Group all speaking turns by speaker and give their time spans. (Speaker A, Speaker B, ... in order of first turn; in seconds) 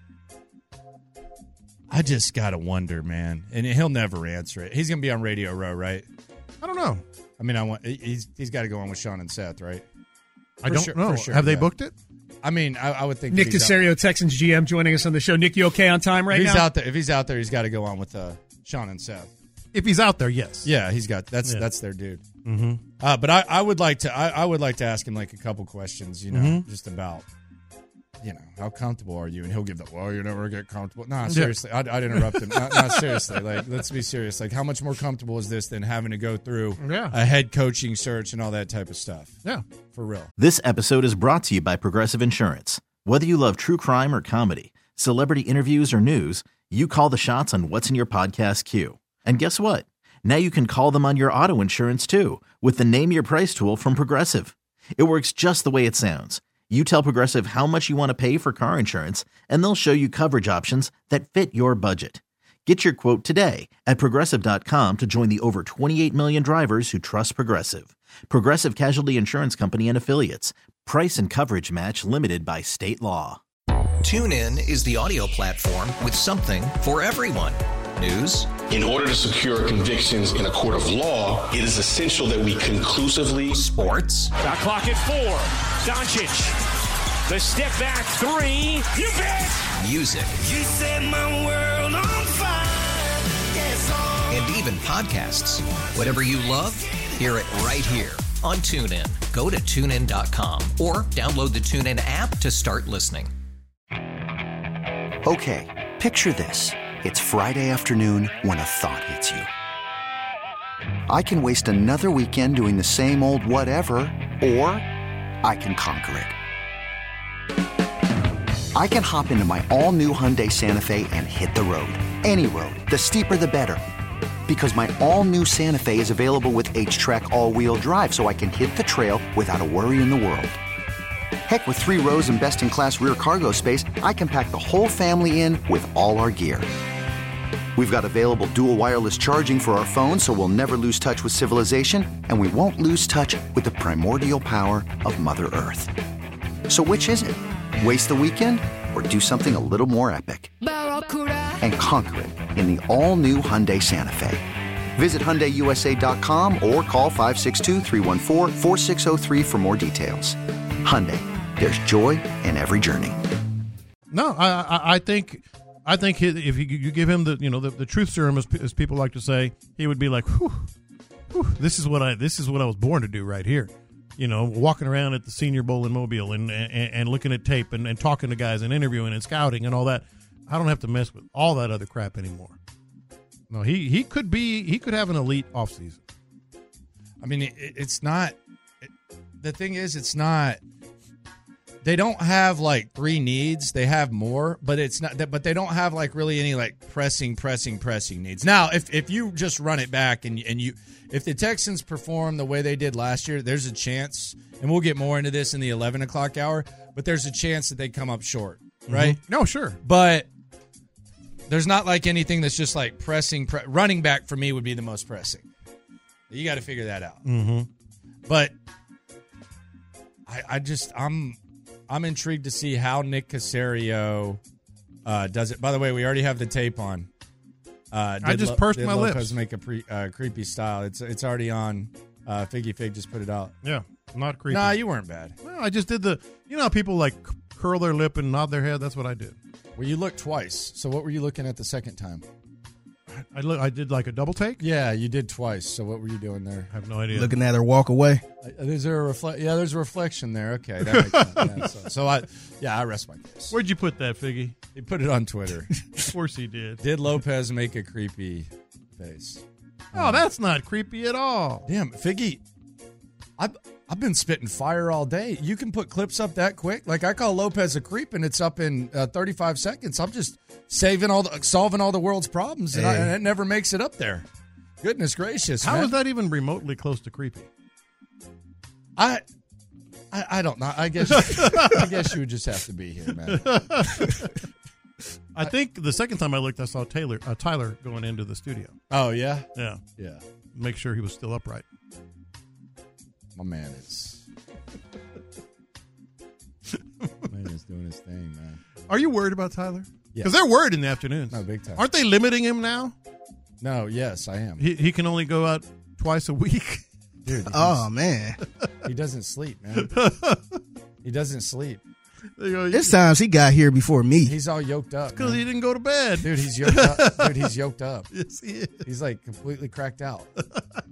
Speaker A: 1.9-6.1, 7.4-9.8, 10.6-11.7, 12.4-13.9, 16.3-19.3, 20.6-22.2, 23.0-27.2, 28.2-39.4, 39.9-40.3, 187.2-188.9, 189.4-190.6, 191.8-209.2, 209.8-210.3, 211.5-215.5, 216.3-217.2, 218.3-218.5, 220.3-221.4, 221.9-224.4, 225.1-227.1, 227.9-233.6, 234.5-235.3, 239.8-242.2, 244.6-246.7, 248.4-253.6, 254.7-256.1, 256.8-260.3, 261.6-262.4, 263.4-274.2, 274.8-276.0, 279.0-279.2, 280.1-283.5, 288.9-289.4, 290.0-290.2, 293.4-294.2, 297.3-298.6, 301.3-301.9, 303.6-304.7, 307.2-307.9, 308.8-309.9, 311.0-311.8, 314.2-315.5, 316.2-318.1, 318.8-320.3
Speaker B: 6.6-7.0, 10.6-11.9, 19.7-20.7, 22.4-22.8, 26.3-26.7, 31.2-31.6, 32.1-33.6, 36.8-37.1, 164.1-170.7, 171.3-182.6, 183.5-186.0, 208.9-209.8, 217.2-217.7, 228.2-229.4, 233.6-234.8, 235.4-239.3, 243.3-244.6, 246.7-247.4, 250.9-251.7, 253.5-254.6, 256.0-256.8, 259.9-261.6, 275.6-277.5, 281.1-282.1, 283.2-284.4, 285.4-288.8, 289.6-289.8, 290.5-291.6, 298.9-302.9, 304.6-306.9, 309.8-310.6, 312.4-312.9, 315.1-317.6, 318.1-318.9
Speaker C: 13.3-16.7
Speaker D: 40.4-73.4
Speaker E: 74.0-78.5, 83.5-84.3, 89.8-90.4, 94.3-103.3
Speaker F: 78.7-83.6
Speaker G: 84.4-86.6, 87.3-89.7, 90.4-94.3
Speaker H: 105.2-109.5, 111.1-114.9, 115.4-116.3, 118.8-123.8, 124.5-130.6, 131.5-136.7, 137.8-145.9, 146.7-150.5, 151.6-154.5, 155.0-163.2
Speaker I: 247.1-248.2, 272.7-273.1, 307.5-308.4, 312.7-314.3